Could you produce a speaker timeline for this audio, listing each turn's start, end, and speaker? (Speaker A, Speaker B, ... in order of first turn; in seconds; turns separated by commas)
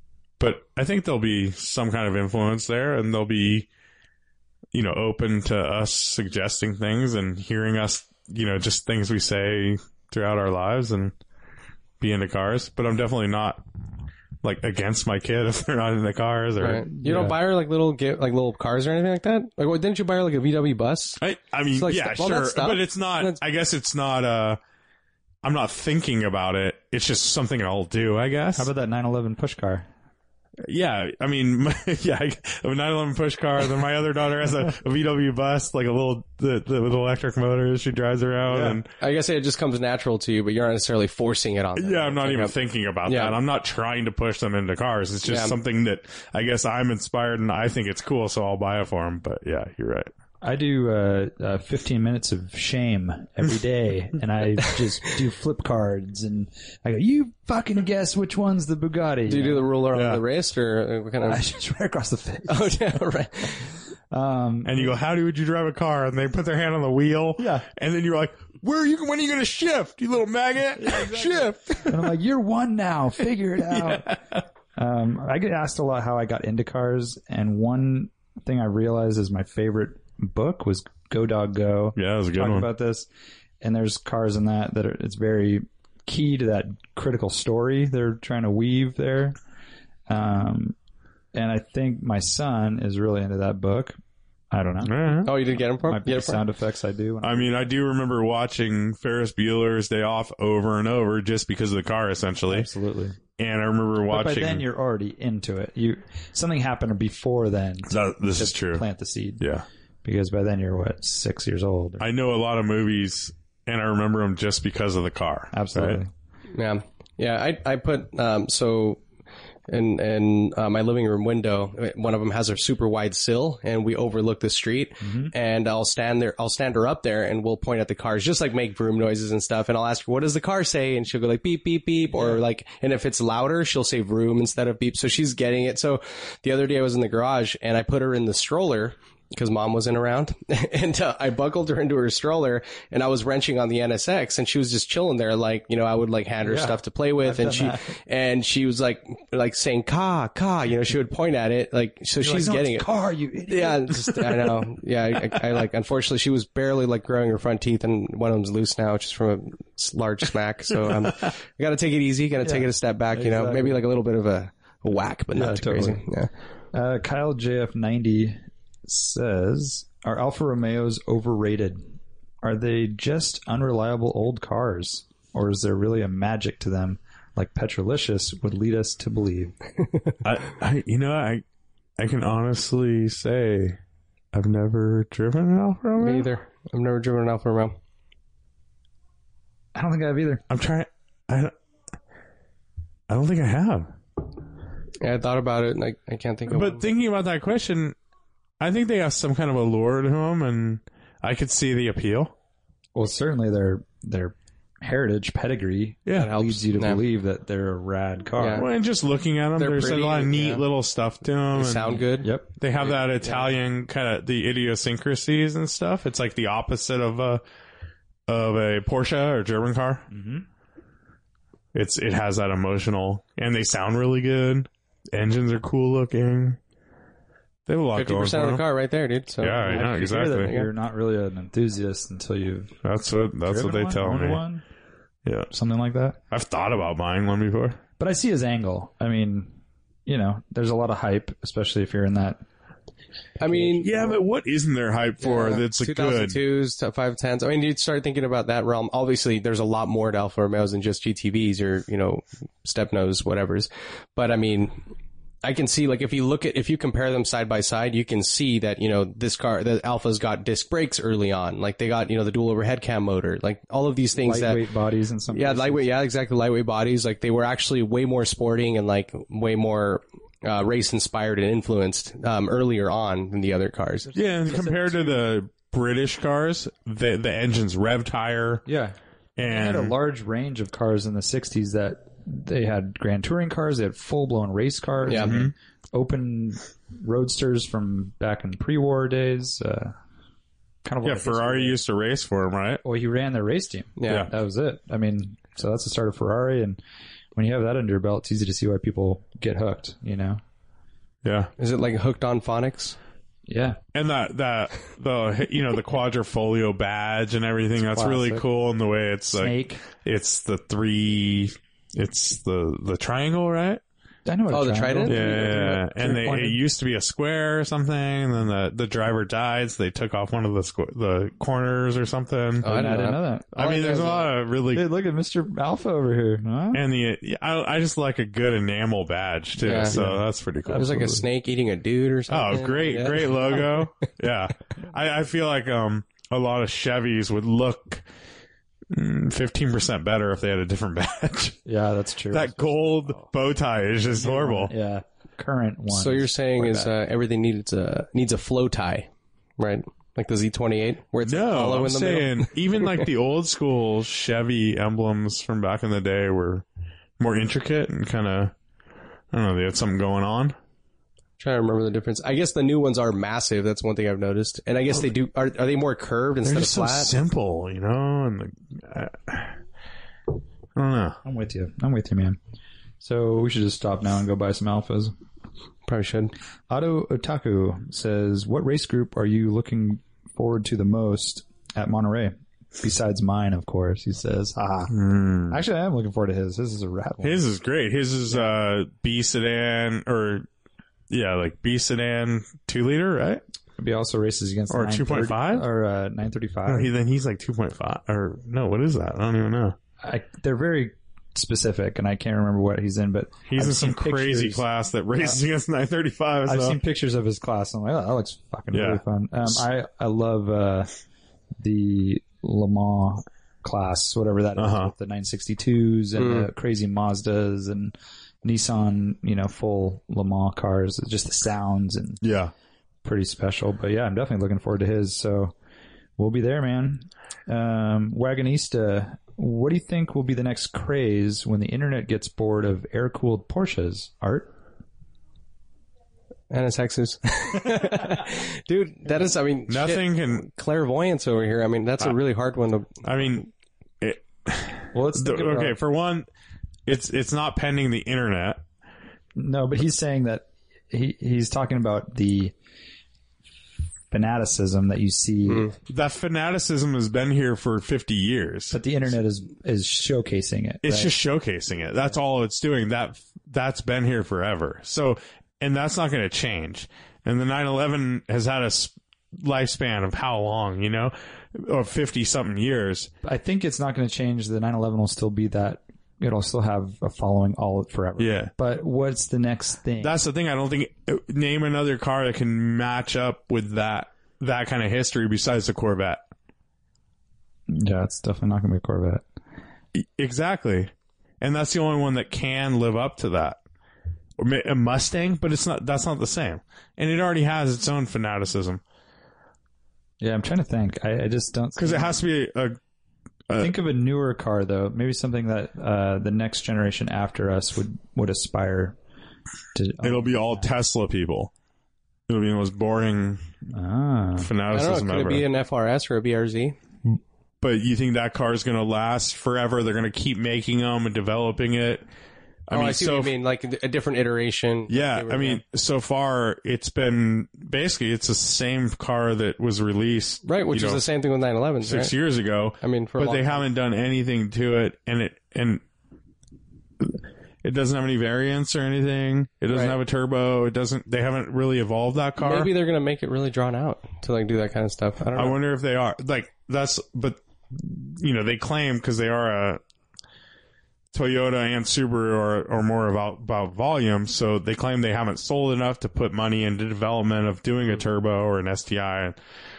Speaker A: 0.4-3.7, Speaker A: 4.7-11.1, Speaker A: 12.0-13.6, Speaker A: 14.4-16.9, Speaker B: 16.6-21.2, Speaker C: 17.0-17.4, Speaker A: 21.2-24.6, Speaker B: 21.7-23.4, Speaker A: 25.4-28.7, Speaker C: 28.6-29.9, Speaker A: 30.7-38.9, Speaker C: 38.5-38.8, Speaker B: 39.0-42.5, Speaker A: 41.8-50.1, Speaker B: 43.0-43.4, Speaker B: 45.2-45.5, Speaker C: 50.4-59.7, Speaker B: 59.3-61.4, Speaker A: 59.9-60.2, Speaker C: 61.3-62.8, Speaker B: 62.5-63.7, Speaker C: 64.1-64.9, Speaker A: 64.6-72.1, Speaker C: 67.4-67.7, Speaker C: 70.8-83.1, Speaker A: 82.0-82.7, Speaker C: 83.6-89.4, Speaker C: 90.1-90.8, Speaker C: 91.3-94.0, Speaker C: 94.5-94.9, Speaker A: 94.8-95.3, Speaker B: 95.2-96.4, Speaker C: 95.9-97.5, Speaker A: 97.2-102.7, Speaker C: 102.5-103.2, Speaker A: 103.4-104.6, Speaker C: 104.1-109.4, Speaker A: 107.9-108.8, Speaker A: 109.4-109.6, Speaker C: 110.0-112.0, Speaker A: 112.0-116.0, Speaker C: 115.5-116.1, Speaker B: 116.5-119.0, Speaker B: 119.7-152.9, Speaker C: 125.0-125.3, Speaker C: 146.4-147.9, Speaker C: 152.2-154.6, Speaker B: 153.5-166.3, Speaker C: 162.4-163.8, Speaker C: 165.3-166.0, Speaker C: 166.7-179.5, Speaker A: 180.2-181.4, Speaker A: 182.0-183.8, Speaker A: 184.3-186.3, Speaker B: 186.0-187.8, Speaker C: 189.7-190.4, Speaker A: 190.5-191.5, Speaker A: 193.1-193.9, Speaker B: 195.0-196.8, Speaker A: 196.5-197.9, Speaker A: 198.6-202.3, Speaker C: 202.9-208.7, Speaker A: 206.1-206.4, Speaker B: 206.2-207.0, Speaker B: 208.4-208.7, Speaker A: 208.5-212.1, Speaker B: 209.6-210.6, Speaker B: 211.5-213.5, Speaker A: 212.6-217.4, Speaker A: 218.3-220.1, Speaker C: 220.1-220.4, Speaker A: 221.7-226.6, Speaker A: 227.7-228.6, Speaker B: 227.9-230.7, Speaker A: 229.4-230.5, Speaker C: 229.6-232.8, Speaker A: 232.8-234.4, Speaker C: 233.4-234.6, Speaker A: 235.2-235.5, Speaker C: 235.5-236.2, Speaker A: 236.3-237.8, Speaker C: 238.0-239.5, Speaker C: 240.1-242.4, Speaker B: 243.4-244.1, Speaker A: 243.7-246.4, Speaker B: 245.2-254.8, Speaker B: 255.4-264.7, Speaker C: 264.2-265.9, Speaker B: 265.3-274.1, Speaker A: 274.1-278.6, Speaker C: 274.5-275.2, Speaker C: 278.6-289.9, Speaker A: 279.4-279.9, Speaker B: 285.1-285.4, Speaker A: 285.2-285.5, Speaker C: 290.8-291.8, Speaker A: 291.0-292.8, Speaker C: 292.8-296.8, Speaker B: 294.0-294.3, Speaker C: 297.3-300.4, Speaker A: 301.2-301.5, Speaker B: 301.6-303.0, Speaker C: 303.5-303.8, Speaker A: 303.9-313.8, Speaker C: 307.8-308.4, Speaker C: 309.3-309.8, Speaker C: 314.2-316.6, Speaker B: 314.5-315.9, Speaker A: 315.0-322.9, Speaker B: 322.6-324.3, Speaker C: 322.6-323.6, Speaker A: 323.5-324.9, Speaker C: 324.7-326.8, Speaker A: 326.7-331.1, Speaker B: 329.6-330.0, Speaker C: 329.9-331.2, Speaker B: 330.7-333.9, Speaker A: 332.3-338.0, Speaker A: 338.9-341.6, Speaker C: 341.6-342.9, Speaker A: 342.3-344.7, Speaker C: 344.1-346.9, Speaker B: 345.9-353.1, Speaker A: 351.2-356.6, Speaker A: 357.2-358.5, Speaker A: 359.3-360.5, Speaker B: 361.4-367.1, Speaker A: 366.4-369.6, Speaker A: 370.8-371.2, Speaker C: 371.2-372.4, Speaker C: 373.0-375.1, Speaker B: 375.9-376.3, Speaker C: 376.7-384.9, Speaker A: 384.9-385.6, Speaker C: 385.5-387.4, Speaker A: 387.2-390.5, Speaker C: 388.3-388.6, Speaker A: 391.1-393.4, Speaker C: 393.8-396.9, Speaker A: 394.7-395.6, Speaker A: 396.7-399.8, Speaker C: 400.0-405.4, Speaker A: 403.5-406.8, Speaker C: 406.4-410.9, Speaker A: 408.7-409.0, Speaker C: 411.6-422.2, Speaker A: 414.6-414.9, Speaker B: 416.2-416.5, Speaker A: 422.2-422.5, Speaker C: 423.0-425.5, Speaker C: 426.2-434.5, Speaker B: 436.5-443.0, Speaker A: 439.7-440.4, Speaker A: 443.0-443.5, Speaker A: 444.0-446.3, Speaker C: 444.9-445.8, Speaker A: 446.9-448.6, Speaker C: 449.3-452.5, Speaker C: 454.1-455.7, Speaker A: 455.9-458.8, Speaker C: 458.7-461.1, Speaker A: 460.8-473.1, Speaker C: 473.2-480.1, Speaker A: 478.2-478.5, Speaker A: 480.0-486.2, Speaker C: 487.7-489.2, Speaker A: 489.9-493.6, Speaker A: 494.4-498.8, Speaker C: 500.2-502.2, Speaker A: 501.8-502.8, Speaker C: 503.6-509.0, Speaker C: 509.7-510.7, Speaker A: 510.0-511.5, Speaker A: 512.3-513.4, Speaker C: 513.7-514.5, Speaker A: 514.4-515.4, Speaker B: 514.7-516.8, Speaker A: 517.6-522.0, Speaker A: 522.7-523.3, Speaker B: 522.7-525.6, Speaker A: 524.9-531.0, Speaker B: 530.4-532.1, Speaker A: 531.8-535.8, Speaker B: 532.8-533.6, Speaker A: 537.0-542.7, Speaker B: 539.7-540.0, Speaker B: 542.4-545.6, Speaker A: 545.3-549.8, Speaker A: 551.1-559.4